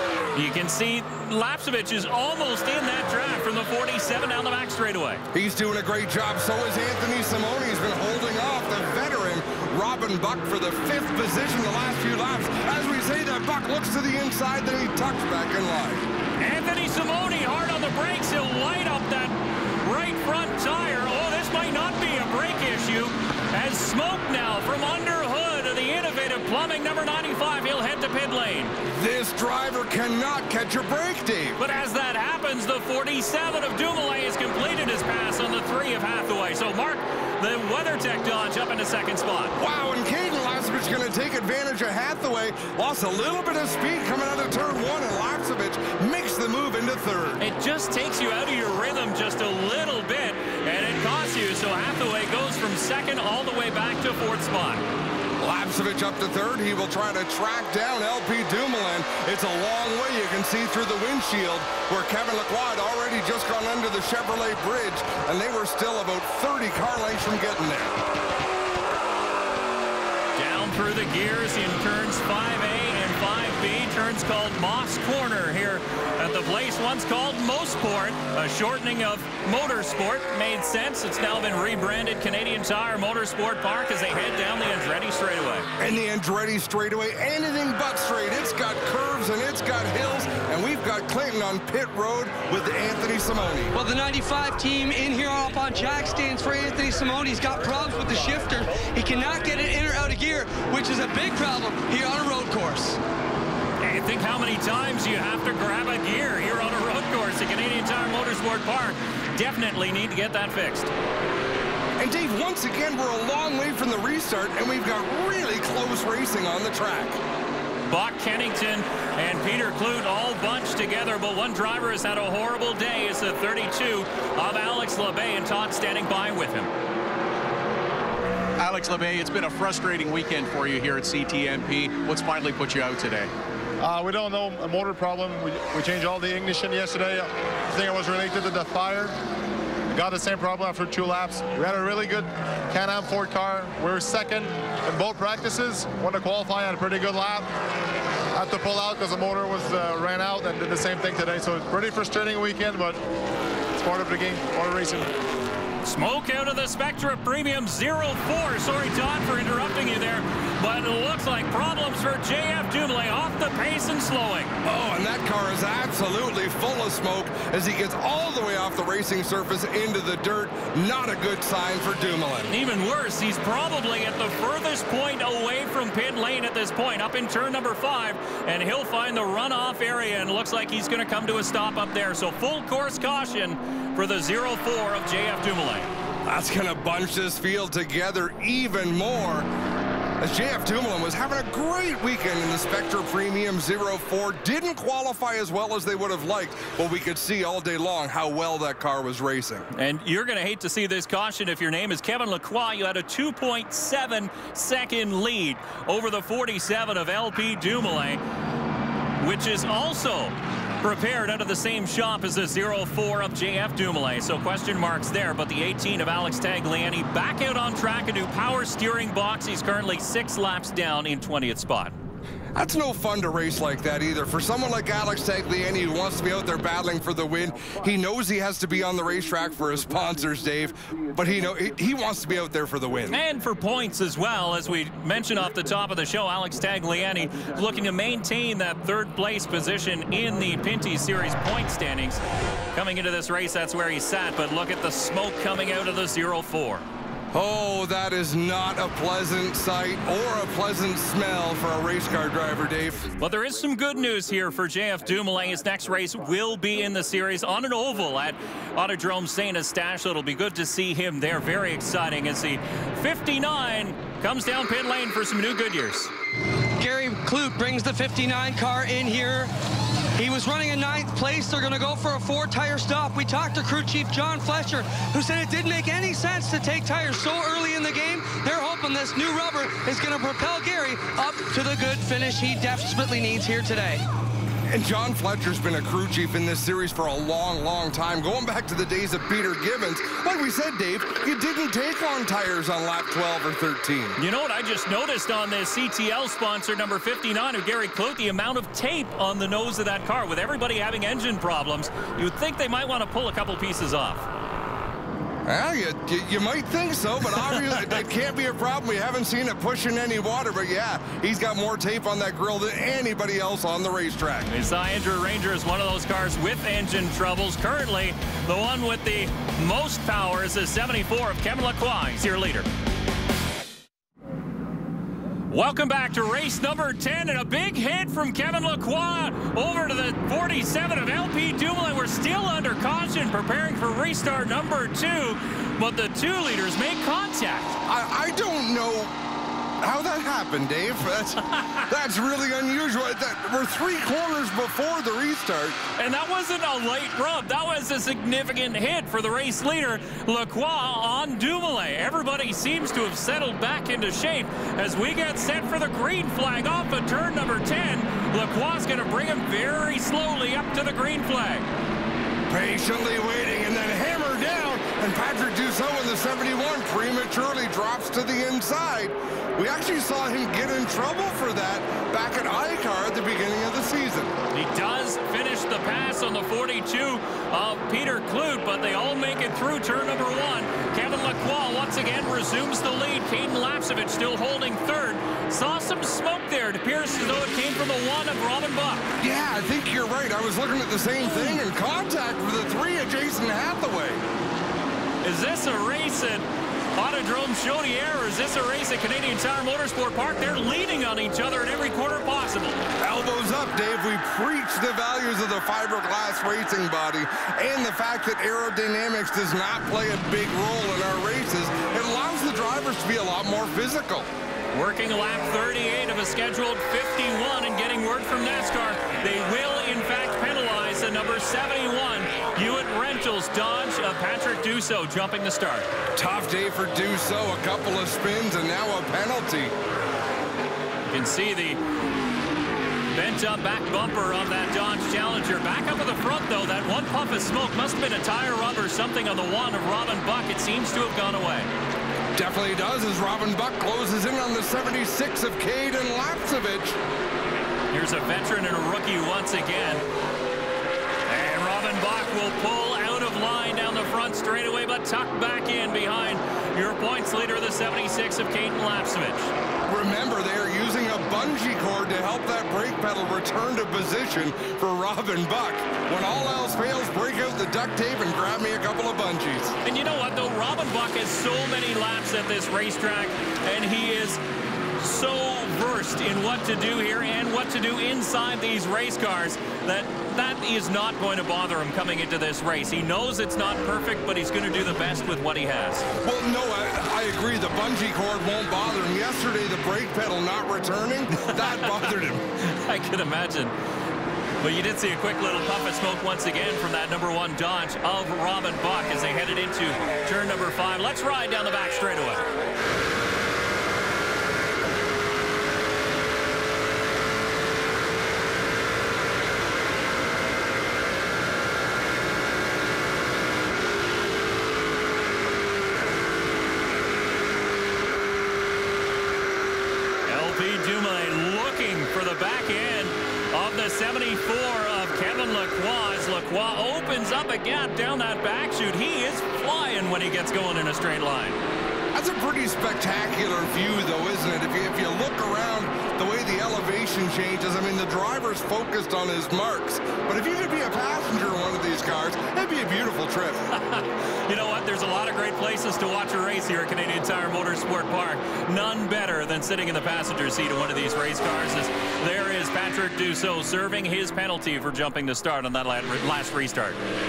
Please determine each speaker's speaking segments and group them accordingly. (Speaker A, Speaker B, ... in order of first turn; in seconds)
Speaker A: 0.3-5.2, 16.4-28.7, 31.6-39.5, 47.4-54.8, 70.4-85.7, 103.8-110.9, 117.9-126.7, 155.8-164.5, 172.5-185.9, 199.7-208.2, 209.2-221.9, 233.1-242.2, 242.7-246.8, 253.2-266.1, 294.2-304.2, 314.5-322.7, 325.5-337.8, 341.5-341.8, 346.0-361.6, 374.5-389.1, 395.2-396.4, 396.9-402.9, 414.7-425.9, 431.1-431.8, 433.1-441.7, 447.9-450.0, 451.3-459.5, 469.8-474.4, 475.0-486.1, 491.5-492.0, 492.6-493.7, 494.6-502.4, 520.2-531.6, 543.7-557.0
Speaker B: 5.3-16.1, 28.9-31.6, 39.6-47.4, 55.4-68.0, 85.8-93.7, 112.0-117.2, 164.6-172.5, 186.2-189.5, 190.2-199.7, 222.5-233.2, 247.3-253.1, 284.7-294.2, 305.4-314.5, 337.9-339.1, 339.8-345.8, 362.5-374.4, 389.2-394.2, 403.0-414.3, 426.1-429.7, 442.3-447.0, 459.9-469.8, 486.2-492.4, 532.1-543.6
Speaker C: 93.7-103.0, 266.8-269.5, 270.1-284.0
Speaker D: 128.6-133.3
Speaker E: 133.8-139.1, 139.9-147.5, 148.3-153.0, 153.7-155.1